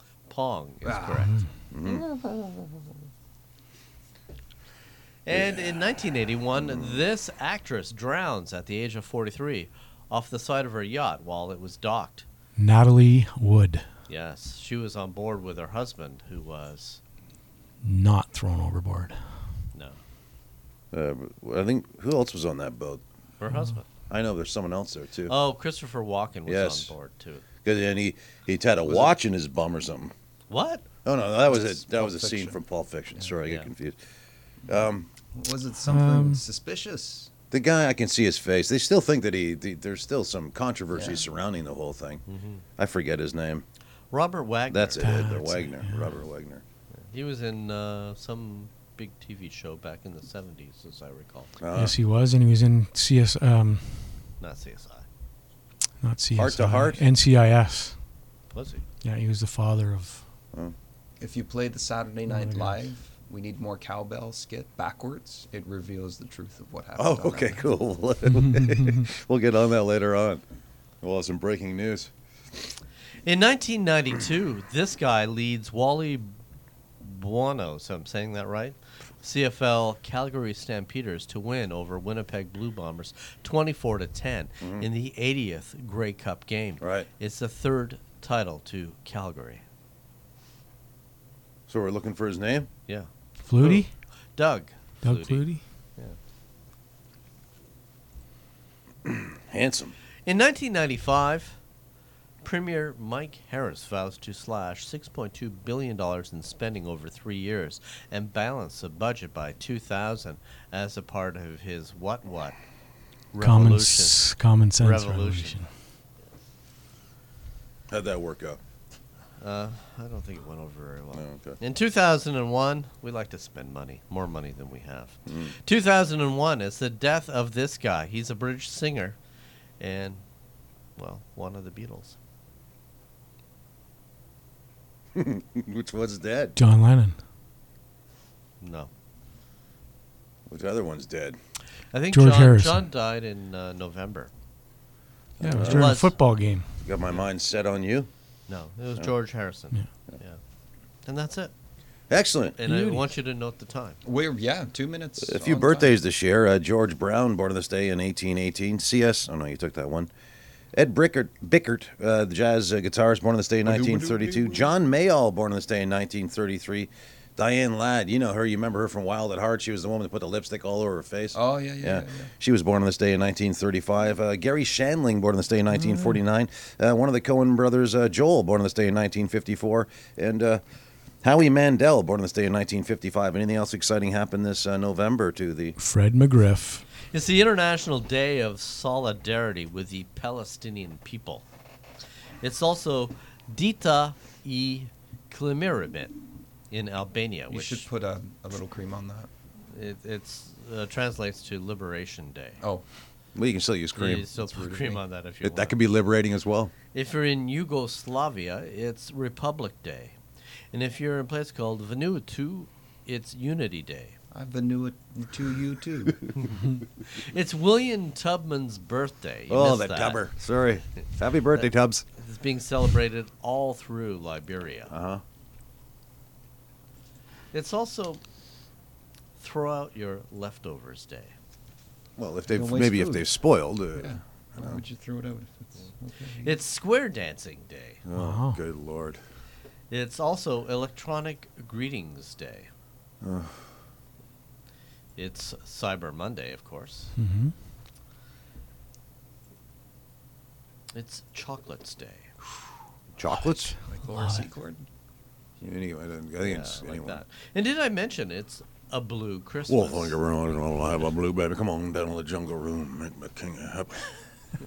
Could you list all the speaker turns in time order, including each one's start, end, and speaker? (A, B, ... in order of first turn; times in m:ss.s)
0:00.3-0:01.4 A
0:00.8-0:01.3 B
0:01.2-0:01.5 C
0:01.7-0:02.1 D
0:01.8-0:02.8 B
0:05.2-0:12.2 A
0:05.3-0:05.9 D
0:06.5-0:07.0 D
0:12.6-0:13.9 C
0:14.1-0:17.0 A
0:17.8-0:19.4 C
0:19.7-0:20.0 A
0:20.9-0:23.0 D
0:23.4-0:23.8 A
0:24.1-0:25.3 D
0:25.3-0:27.4 A
0:26.5-0:26.9 D
0:27.6-0:30.1 D
0:28.8-0:29.2 B
0:30.5-0:30.8 A
0:31.0-0:34.0 D
0:31.4-0:32.6 B
0:33.4-0:33.7 A
0:34.7-0:35.1 D
0:35.3-0:37.3 B
0:35.8-0:36.4 C
0:37.5-0:42.2 D
0:40.9-0:41.2 B
0:42.3-0:42.6 A
0:42.8-0:43.6 D
0:44.1-0:45.0 A
0:44.7-0:46.6 D
0:45.0-0:46.1 C
0:46.9-0:51.5 A
0:51.6-0:52.0 D
0:51.7-0:54.3 C
0:54.4-0:55.0 A
0:56.0-0:58.0 C
0:56.3-0:57.0 D
0:58.5-0:58.8 A
0:59.0-1:00.2 C
1:01.2-1:07.7 B
1:02.3-1:02.8 C
1:07.0-1:10.4 D
1:11.0-1:12.1 D
1:13.2-1:16.3 A
1:17.0-1:29.6 A
1:24.6-1:24.9 D
1:26.8-1:27.1 D
1:31.7-1:32.7 D
1:33.4-1:33.9 C
1:34.4-1:36.2 A
1:35.0-1:35.6 C
1:39.0-1:39.9 D
1:40.2-1:41.6 A
1:42.4-1:52.6 A
1:53.3-1:55.7 A
1:53.4-1:55.7 C
1:57.9-1:58.6 D
1:59.4-2:09.2 A
2:01.1-2:01.6 D
2:09.8-2:10.2 A
2:11.0-2:12.2 A
2:15.2-2:16.6 D
2:16.6-2:17.2 C
2:18.6-2:18.9 A
2:20.5-2:21.4 D
2:21.9-2:24.3 A
2:22.1-2:22.9 C
2:25.4-2:25.9 D
2:25.4-2:26.8 C
2:25.5-2:26.2 A
2:26.8-2:28.1 D
2:28.5-2:30.4 A
2:31.0-2:31.5 A
2:32.1-2:32.6 D
2:32.6-2:34.0 A
2:32.6-2:33.1 C
2:34.0-2:36.0 B
2:35.2-2:40.1 D
2:40.7-3:00.6 D
2:43.6-2:44.7 B
2:51.3-2:52.3 B
2:55.8-2:56.0 B
3:01.2-3:05.8 D
3:05.8-3:06.8 C
3:07.1-3:11.4 A
3:12.4-3:16.1 A
3:16.7-3:17.9 A
3:17.5-3:19.3 B
3:19.7-3:22.6 A
3:23.3-3:24.3 D
3:23.9-3:25.8 A
3:24.4-3:25.0 B
3:25.4-3:26.7 D
3:26.9-3:30.2 A
3:30.7-3:34.2 A
3:34.3-3:36.2 B
3:36.4-3:40.3 A
3:39.5-3:42.0 D
3:41.5-3:44.9 A
3:44.9-3:45.2 D
3:47.5-3:48.2 A
3:49.4-3:51.3 A
3:52.2-3:54.8 D
3:52.5-3:53.3 B
3:53.9-3:56.6 B
3:56.4-3:58.0 A
3:58.0-3:59.2 D
3:58.1-3:58.6 C
3:59.9-4:02.7 A
4:03.2-4:03.6 D
4:05.2-4:07.1 A
4:07.2-4:07.5 C
4:10.9-4:12.3 A
4:13.2-4:13.8 D
4:13.8-4:14.9 B
4:14.1-4:14.4 C
4:15.6-4:17.2 D
4:16.4-4:20.2 A
4:19.7-4:24.1 D